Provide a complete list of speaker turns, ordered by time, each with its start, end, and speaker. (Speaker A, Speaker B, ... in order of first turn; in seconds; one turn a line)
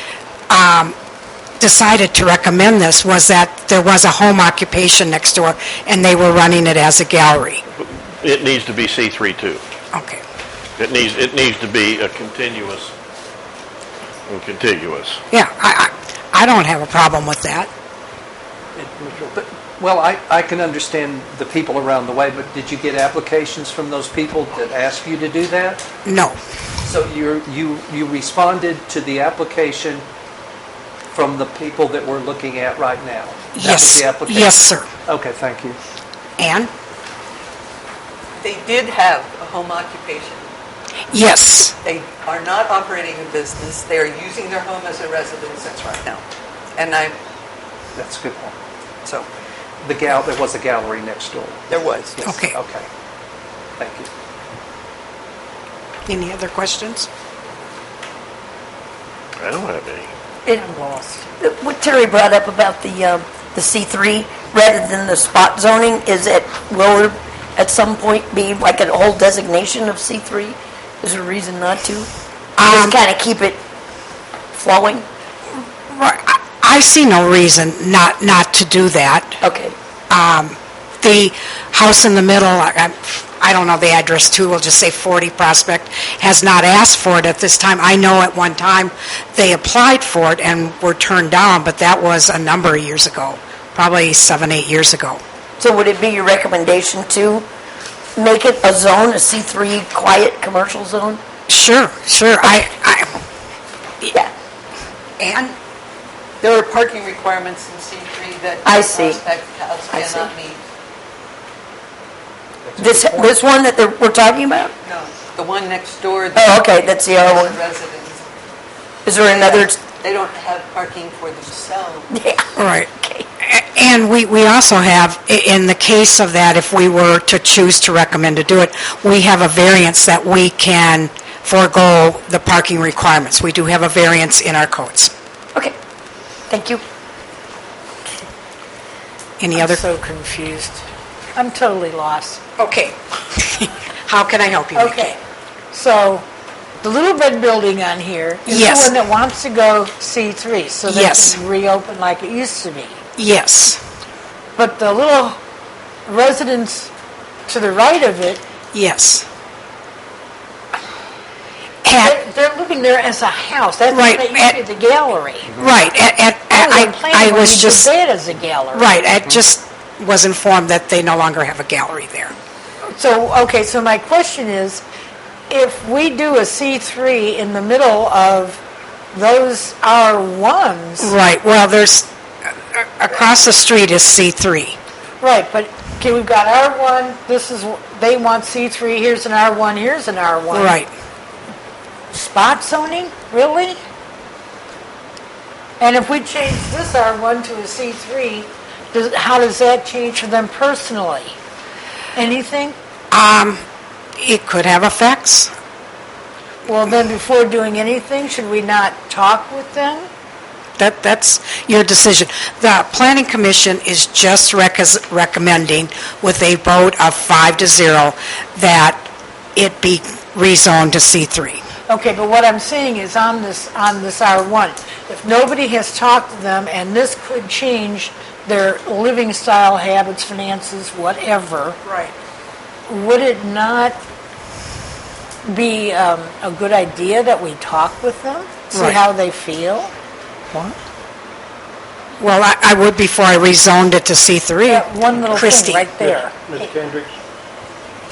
Speaker A: 0.5-0.9
Speaker A: 1.6-7.6
Speaker B: 7.8-9.6
Speaker A: 9.9-10.2
Speaker B: 10.8-12.9
Speaker B: 14.3-15.2
Speaker A: 15.3-17.7
Speaker C: 18.8-25.8
Speaker A: 26.1-26.4
Speaker C: 26.8-30.1
Speaker C: 31.1-35.8
Speaker A: 33.5-34.9
Speaker A: 36.4-36.7
Speaker D: 38.4-40.5
Speaker A: 41.1-41.8
Speaker D: 41.8-46.2
Speaker D: 46.8-47.2
Speaker C: 48.0-48.6
Speaker C: 49.8-52.9
Speaker D: 51.7-52.2
Speaker A: 52.2-52.6
Speaker C: 53.8-54.1
Speaker A: 56.1-57.1
Speaker B: 59.4-60.1
Speaker E: 60.5-61.3
Speaker F: 61.4-72.1
Speaker A: 72.6-73.0
Speaker F: 72.7-73.6
Speaker F: 74.5-75.1
Speaker A: 75.9-79.4
Speaker F: 79.4-79.8
Speaker A: 80.1-95.2
Speaker F: 95.6-97.5
Speaker F: 98.2-101.2
Speaker A: 101.5-103.1
Speaker A: 105.2-105.6
Speaker D: 106.4-110.6
Speaker F: 108.7-109.2
Speaker F: 109.9-110.3
Speaker C: 112.7-113.4
Speaker F: 112.8-114.7
Speaker D: 114.8-118.3
Speaker F: 116.3-117.6
Speaker F: 119.1-119.8
Speaker D: 119.2-122.1
Speaker F: 122.1-123.3
Speaker A: 122.6-122.9
Speaker A: 123.4-135.1
Speaker F: 136.5-136.8
Speaker A: 139.4-139.8
Speaker E: 139.6-140.8
Speaker E: 141.4-142.4
Speaker A: 142.6-145.2
Speaker E: 144.8-145.2
Speaker E: 145.7-146.2
Speaker E: 146.8-153.0
Speaker A: 148.5-148.9
Speaker A: 150.9-151.4
Speaker A: 153.2-153.8
Speaker E: 154.6-155.4
Speaker E: 156.1-156.9
Speaker E: 157.5-158.4
Speaker A: 158.7-159.3
Speaker A: 161.8-162.2
Speaker E: 162.0-165.5
Speaker A: 163.9-164.6
Speaker A: 165.6-167.9
Speaker E: 166.5-168.9
Speaker A: 168.7-172.3
Speaker E: 172.9-174.8
Speaker E: 175.5-178.6
Speaker E: 179.1-181.1
Speaker A: 181.0-182.1
Speaker A: 182.7-184.8
Speaker E: 185.2-190.8
Speaker A: 190.5-190.9
Speaker E: 192.1-193.8
Speaker E: 195.8-201.4
Speaker E: 202.2-202.8
Speaker A: 203.1-203.6
Speaker A: 204.2-205.5
Speaker E: 206.7-210.1
Speaker A: 210.8-221.6
Speaker E: 221.9-231.8
Speaker E: 232.9-234.0
Speaker E: 235.4-239.9
Speaker A: 238.7-239.0
Speaker A: 242.2-245.9
Speaker E: 244.7-246.7